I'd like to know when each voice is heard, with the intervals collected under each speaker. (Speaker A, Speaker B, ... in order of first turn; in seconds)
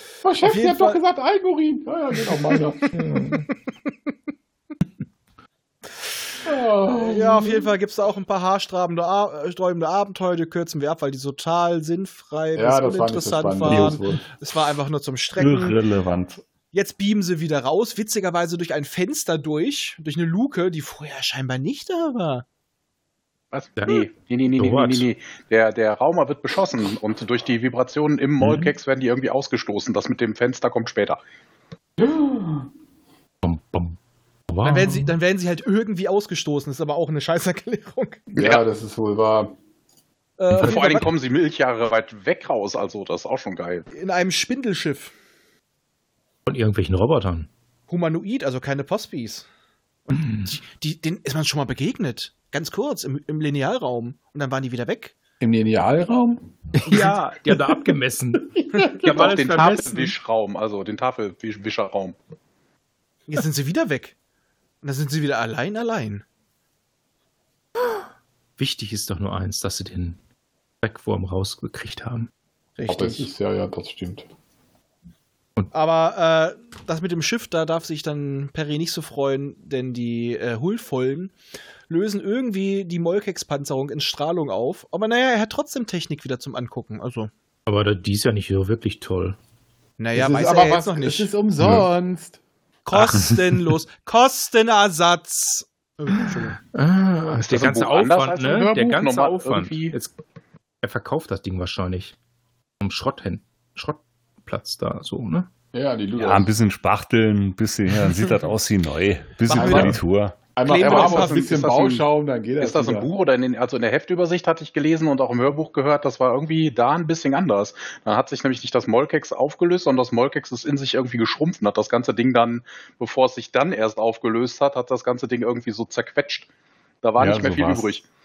Speaker A: 0.2-2.9, 6.4-7.7, 12.5-14.2, 32.0-32.7, 38.3-39.5, 55.4-56.5, 58.6-59.2, 72.9-74.3, 90.1-92.4, 105.7-106.5, 109.5-113.1
Speaker B: 0.4-1.0, 2.5-3.4, 6.9-15.8, 16.7-22.4, 34.6-38.2, 40.4-41.1, 43.9-45.1, 47.9-49.5, 50.1-55.1, 63.3-64.1, 64.8-66.2, 72.8-73.3, 75.7-81.3, 81.9-87.3, 90.0-91.3, 92.8-96.6, 109.5-110.0, 110.7-111.4
Speaker C: 3.0-3.5, 23.8-25.1, 33.4-34.0, 34.5-35.1, 46.5-47.5, 50.1-50.5, 56.8-60.1, 68.6-70.2, 70.8-72.3, 87.7-89.4, 96.7-100.1, 100.8-102.1, 102.8-105.5
Speaker D: 13.7-14.0, 15.4-16.4, 106.2-110.3, 127.2-127.9
Speaker E: 23.5-31.2, 38.4-38.6, 40.5-43.9, 59.0-62.1, 97.4-100.0, 110.7-112.0, 112.6-126.5, 127.0-128.1